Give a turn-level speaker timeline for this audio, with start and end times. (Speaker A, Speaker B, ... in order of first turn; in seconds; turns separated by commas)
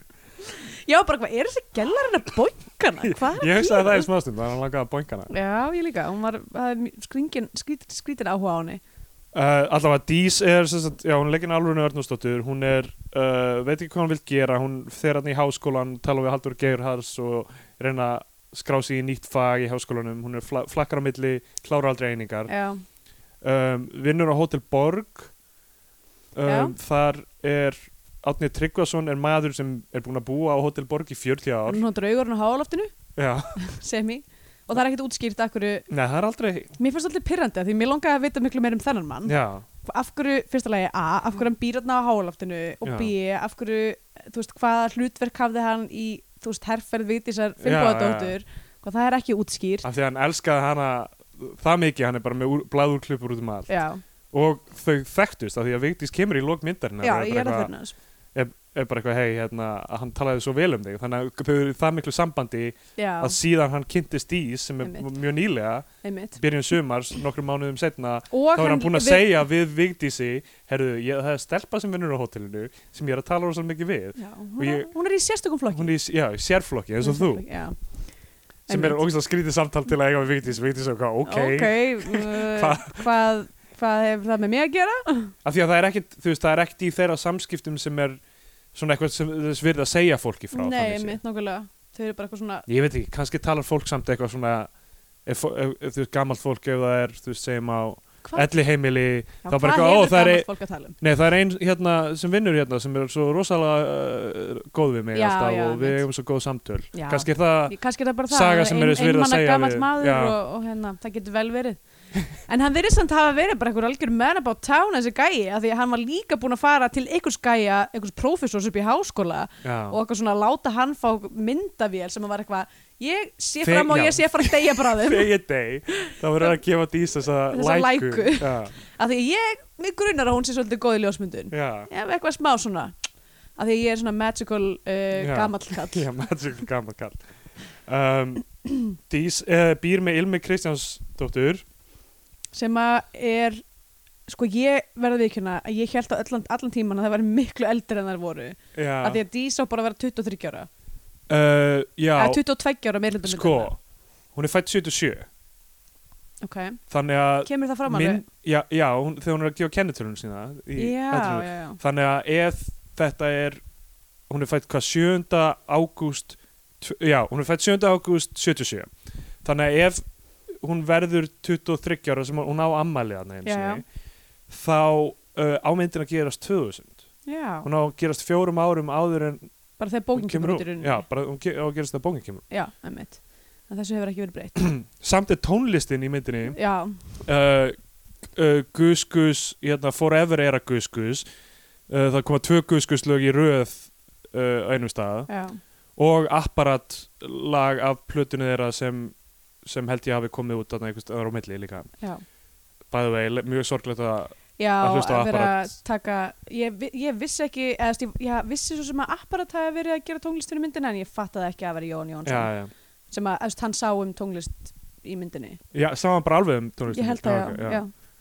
Speaker A: 0.4-4.1, Speaker B: 3.0-5.3, Speaker A: 5.3-8.8, Speaker B: 9.3-22.5, Speaker A: 22.5-22.8, Speaker B: 23.4-25.3, Speaker B: 26.4-31.8, Speaker A: 26.4-26.7, Speaker A: 31.7-32.9, Speaker B: 33.2-33.5, Speaker A: 33.6-35.9, Speaker B: 35.9-36.7, Speaker A: 36.8-49.9, Speaker B: 39.2-39.6, Speaker B: 42.8-43.1, Speaker B: 47.6-48.4, Speaker B: 49.8-53.7, Speaker A: 53.7-54.0, Speaker B: 54.3-57.7, Speaker A: 57.0-58.0, Speaker B: 58.4-74.9, Speaker A: 63.0-63.4, Speaker A: 64.8-65.1, Speaker A: 66.0-66.4, Speaker A: 68.3-69.3, Speaker A: 74.2-75.9, Speaker B: 75.7-77.5, Speaker A: 77.0-78.0, Speaker A: 78.7-79.0, Speaker B: 78.7-83.0, Speaker A: 81.2-85.3, Speaker B: 85.4-88.2, Speaker B: 88.7-91.2, Speaker A: 90.5-92.7, Speaker B: 92.7-94.7, Speaker B: 95.2-100.5, Speaker A: 98.2-98.5, Speaker A: 99.4-101.0, Speaker B: 101.0-107.8, Speaker A: 105.1-106.0, Speaker A: 106.9-125.3, Speaker B: 108.3-110.4, Speaker B: 119.6-120.0, Speaker B: 123.6-128.7, Speaker A: 125.9-126.5, Speaker A: 127.5-132.9, Speaker B: 131.5-131.9, Speaker A: 133.6-136.1, Speaker B: 135.2-137.2, Speaker B: 137.8-141.7, Speaker A: 142.5-143.6, Speaker A: 144.3-150.7, Speaker B: 148.8-149.2, Speaker B: 151.3-152.4, Speaker A: 152.2-153.7, Speaker B: 153.2-153.8, Speaker B: 154.3-155.3, Speaker A: 156.4-156.8, Speaker B: 156.9-163.6, Speaker A: 157.4-158.2, Speaker A: 160.8-161.8, Speaker B: 164.3-168.9, Speaker B: 169.4-173.8, Speaker A: 173.4-173.8, Speaker B: 174.5-177.0, Speaker A: 177.2-177.7, Speaker B: 177.6-179.5, Speaker A: 179.8-181.0, Speaker B: 180.1-182.4, Speaker A: 182.5-184.7, Speaker B: 184.6-186.6, Speaker A: 186.5-187.0, Speaker B: 187.2-187.8, Speaker B: 188.3-191.2, Speaker B: 191.9-195.3, Speaker A: 195.3-195.6, Speaker B: 196.0-201.9, Speaker B: 202.9-205.7, Speaker A: 204.6-212.5, Speaker B: 212.2-212.7, Speaker A: 213.1-215.6, Speaker B: 215.7-217.8, Speaker A: 216.9-217.9